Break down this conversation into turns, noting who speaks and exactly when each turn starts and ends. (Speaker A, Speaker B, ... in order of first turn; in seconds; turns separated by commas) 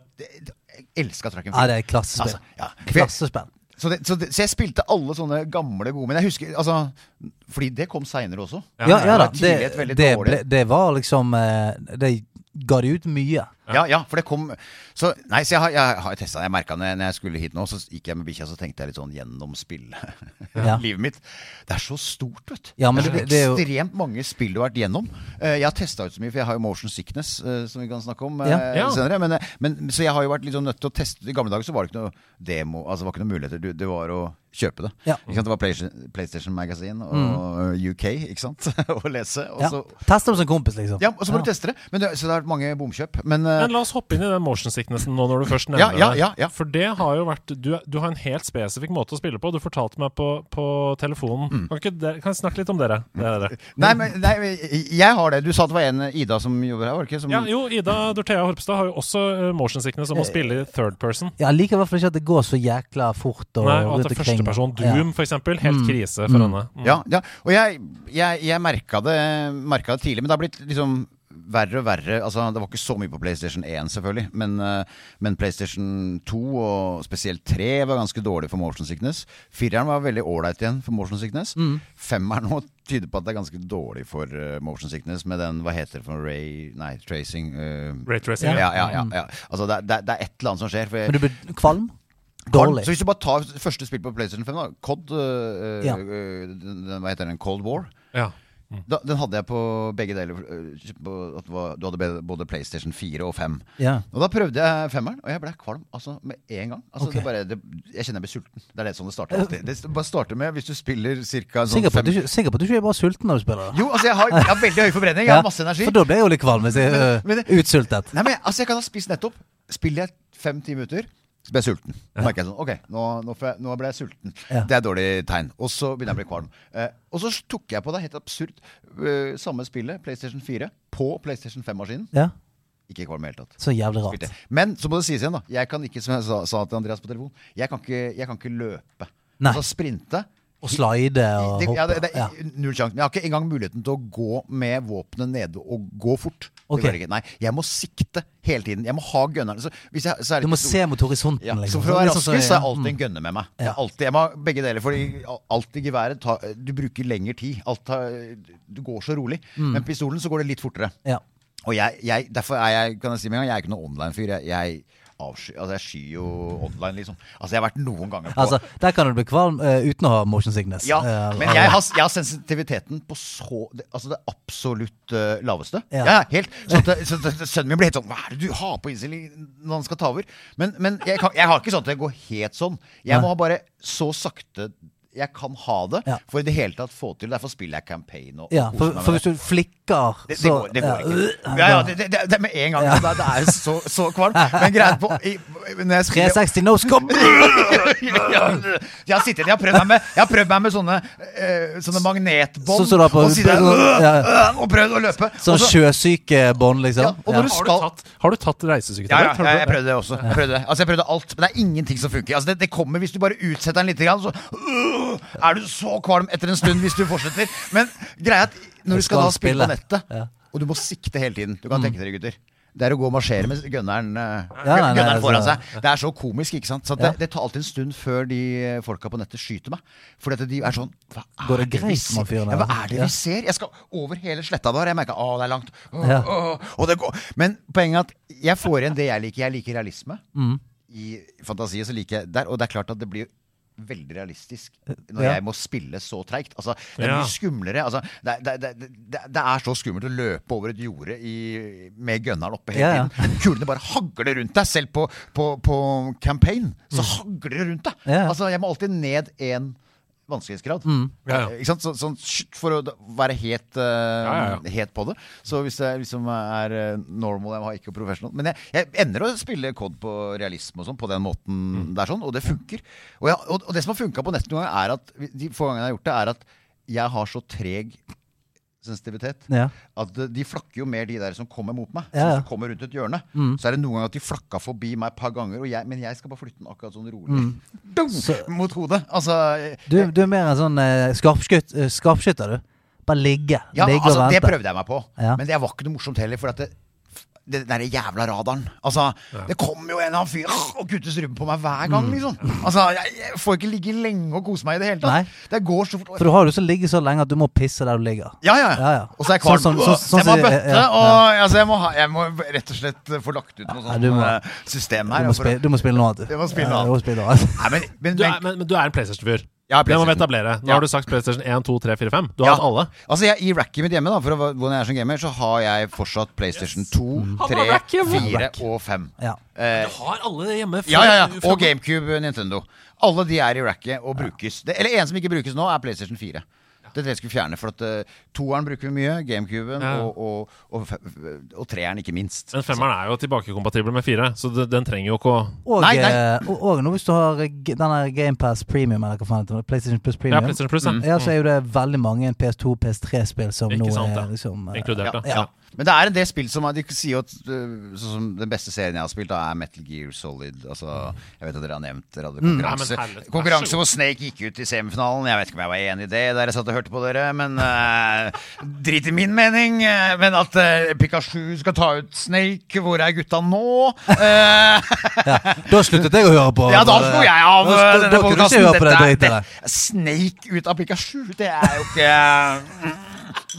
Speaker A: 0.2-3.1, Speaker B: 1.5-3.5, Speaker A: 3.7-10.4, Speaker C: 8.8-9.1, Speaker B: 8.8-13.5, Speaker A: 13.7-40.0, Speaker B: 22.8-23.6, Speaker C: 28.7-29.0, Speaker B: 37.1-37.4, Speaker B: 39.6-41.5, Speaker A: 41.0-43.7, Speaker C: 43.6-53.7, Speaker A: 45.7-46.5, Speaker A: 53.6-57.5, Speaker C: 57.3-61.3, Speaker B: 61.4-65.0, Speaker C: 63.6-67.0, Speaker B: 65.6-66.5, Speaker A: 66.8-91.2, Speaker B: 81.6-81.8, Speaker C: 88.1-89.0, Speaker B: 88.4-89.1, Speaker B: 91.1-91.9, Speaker A: 92.5-97.9, Speaker B: 92.5-92.9, Speaker C: 98.1-98.8, Speaker A: 98.9-112.2, Speaker B: 103.8-104.0, Speaker B: 111.7-114.6, Speaker A: 113.7-116.0, Speaker B: 115.2-118.1, Speaker A: 116.6-117.5, Speaker A: 118.1-132.1, Speaker A: 132.9-140.8, Speaker B: 133.6-134.3, Speaker B: 140.6-142.3, Speaker A: 141.4-150.8, Speaker B: 146.7-147.0, Speaker B: 150.4-153.0, Speaker A: 151.4-160.9, Speaker B: 159.6-159.9, Speaker A: 161.6-168.6, Speaker B: 168.3-171.8, Speaker A: 170.8-189.3, Speaker B: 188.5-191.9, Speaker A: 190.3-196.4, Speaker B: 192.8-193.5, Speaker B: 194.4-195.0, Speaker B: 196.1-197.9, Speaker A: 197.0-205.8, Speaker B: 202.7-204.3, Speaker B: 205.4-207.5, Speaker A: 207.0-207.9, Speaker C: 207.4-209.8, Speaker A: 209.1-240.2, Speaker B: 218.9-220.3, Speaker B: 224.6-225.6, Speaker B: 231.4-233.1, Speaker B: 236.0-236.3, Speaker B: 240.3-240.6, Speaker A: 240.9-259.8, Speaker C: 247.0-247.3, Speaker B: 252.8-253.4, Speaker B: 258.1-258.4, Speaker A: 260.3-278.0, Speaker B: 260.9-261.1, Speaker C: 264.2-264.6, Speaker A: 278.8-290.1, Speaker B: 279.5-279.7, Speaker B: 282.1-282.5, Speaker B: 283.4-283.6, Speaker B: 287.3-287.6, Speaker B: 288.1-288.5, Speaker B: 289.9-294.6, Speaker A: 293.7-296.7, Speaker A: 297.4-306.3, Speaker B: 301.9-302.2, Speaker B: 305.0-305.3, Speaker B: 306.2-311.2, Speaker A: 308.4-317.0, Speaker B: 313.9-314.4, Speaker B: 315.1-317.7, Speaker A: 317.6-318.4, Speaker C: 318.1-322.9, Speaker A: 319.7-320.9, Speaker A: 322.4-330.0, Speaker C: 326.6-326.9, Speaker C: 327.4-328.3, Speaker B: 328.0-328.6, Speaker C: 329.7-331.7, Speaker A: 330.9-342.8, Speaker C: 339.8-340.1, Speaker C: 342.5-345.6, Speaker B: 345.6-355.4, Speaker A: 345.8-346.2, Speaker C: 350.3-351.3, Speaker C: 353.7-355.4, Speaker A: 355.0-376.0, Speaker B: 362.4-362.7, Speaker C: 362.6-363.8, Speaker B: 375.2-379.4, Speaker A: 376.6-383.4